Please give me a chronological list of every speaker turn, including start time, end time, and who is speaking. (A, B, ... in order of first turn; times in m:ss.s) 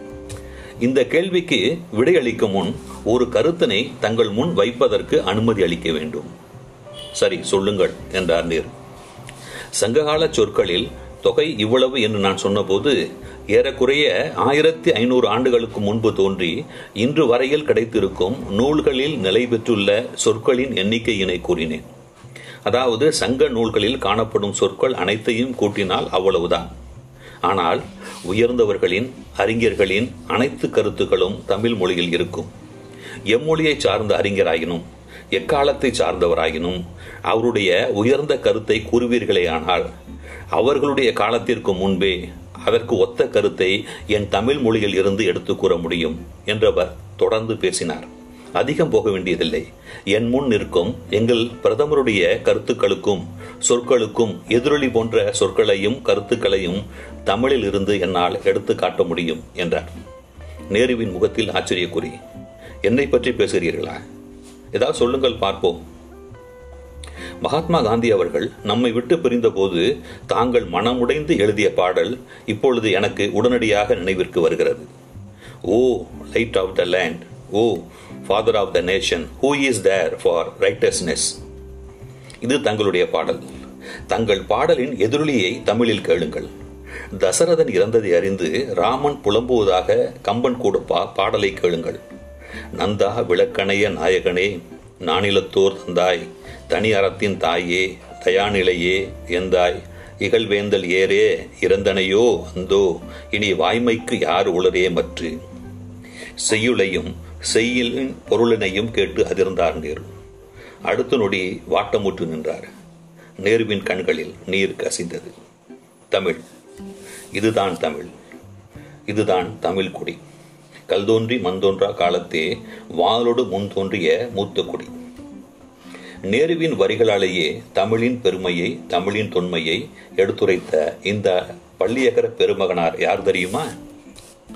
0:00.8-0:06.3 A
0:07.2-0:08.7 A
0:09.8-0:13.0 A
0:13.5-0:21.8 A
0:22.6-0:26.7 A
0:27.4-0:32.5 A
0:33.3-0:39.8 A
0:40.6-0:59.9 A
1:00.7-1:02.2 A
1:02.8-1:04.0 A
1:04.7-1:05.8 A
1:07.4-1:14.9 A
1:15.7-1:21.4 A
1:22.4-1:23.4 A
1:24.1-1:26.5 A
1:27.1-1:32.0 A
1:32.8-1:45.3 A
1:46.4-1:50.0 A
1:50.9-1:52.7 A
1:53.4-1:55.3 A
1:56.1-1:56.4 A
1:57.3-1:58.1 A
1:59.1-2:00.2 A
2:00.9-2:04.9 A
2:06.3-2:13.7 A